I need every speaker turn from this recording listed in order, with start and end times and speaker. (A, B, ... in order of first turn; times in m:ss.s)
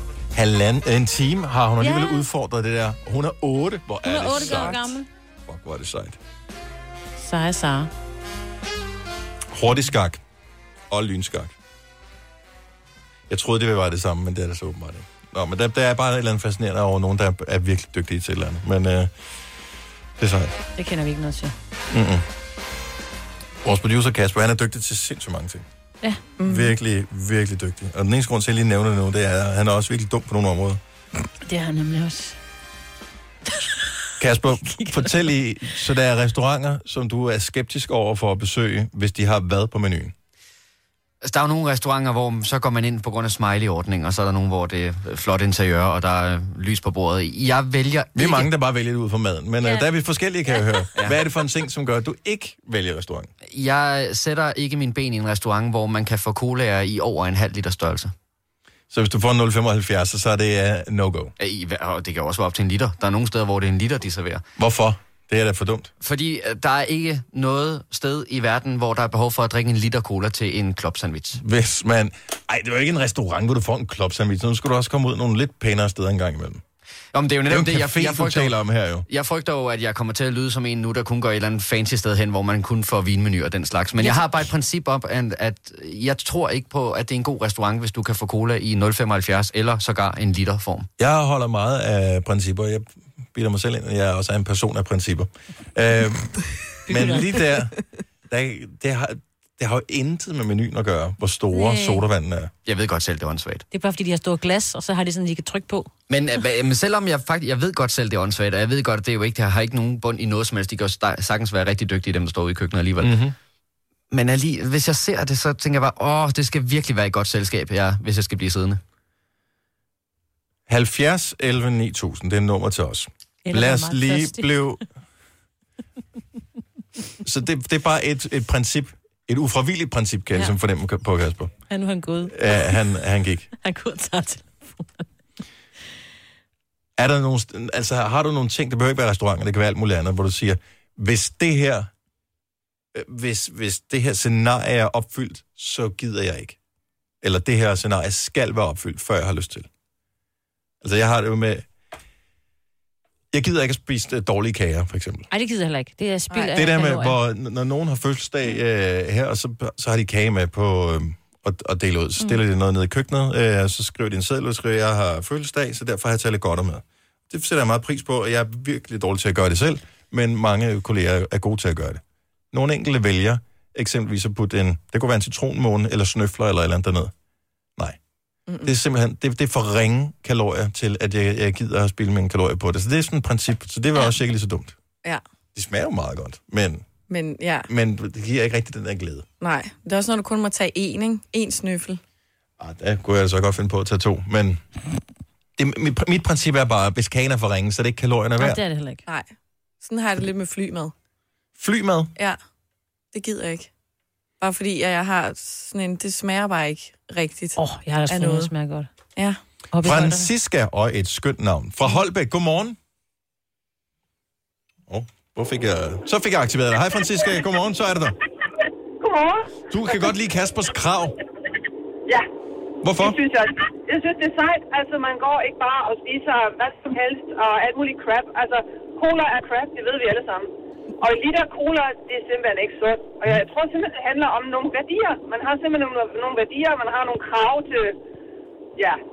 0:00.3-0:06.2 A
0:01.8-0:02.2 B
0:04.0-0:05.1 B
0:07.2-0:07.9 B
0:09.5-0:10.2 A
0:10.9-0:11.5 A
0:13.3-0:19.1 A
0:20.2-0:20.6 A
0:20.8-0:21.5 B
0:21.9-0:22.2 A
0:23.6-0:25.6 A
0:26.4-0:26.7 C
0:26.4-0:30.8 A
0:31.4-0:32.4 B
0:34.2-0:40.1 A
0:34.6-0:35.2 B
0:41.2-0:48.5 D
0:48.1-0:53.3 A
0:49.6-0:49.9 B
0:53.5-0:58.1 D
0:58.9-1:01.3 A
1:01.4-1:04.4 D
1:04.6-1:05.9 A
1:06.0-1:11.4 D
1:11.4-1:16.6 A
1:17.1-1:30.9 D
1:17.5-1:19.0 A
1:31.0-1:37.7 A
1:36.9-1:37.4 B
1:38.3-1:42.5 A
1:41.5-1:42.0 B
1:42.6-1:43.6 D
1:43.7-1:45.9 B
1:46.1-1:53.2 D
1:53.0-1:53.3 A
1:54.1-1:58.8 D
2:00.7-2:04.8 A
2:03.4-2:04.6 B
2:07.2-2:11.5 A
2:11.7-2:12.8 B
2:12.3-2:13.5 A
2:13.6-2:15.0 B
2:17.0-2:21.9 A
2:22.9-2:26.6 A
2:27.2-2:29.7 A
2:30.8-2:31.6 A
2:33.3-2:35.3 A
2:35.3-2:37.2 B
2:36.5-2:52.0 A
2:52.5-2:57.1 A
2:58.5-2:58.7 C
2:58.6-3:04.7 A
3:05.5-3:06.9 A
3:07.1-3:07.7 C
3:07.7-3:09.2 A
3:09.4-3:12.0 C
3:12.6-3:14.6 A
3:15.6-3:18.6 A
3:18.4-3:19.0 B
3:19.8-3:20.9 C
3:21.6-3:22.1 A
3:23.1-3:23.7 C
3:24.4-3:27.6 C
3:27.6-3:28.9 B
3:28.1-3:28.5 C
3:29.7-3:30.3 B
3:29.8-3:32.8 A
3:34.9-3:38.2 A
3:39.0-3:39.9 E
3:39.7-3:41.1 A
3:42.8-3:43.2 A
3:43.0-3:58.0 E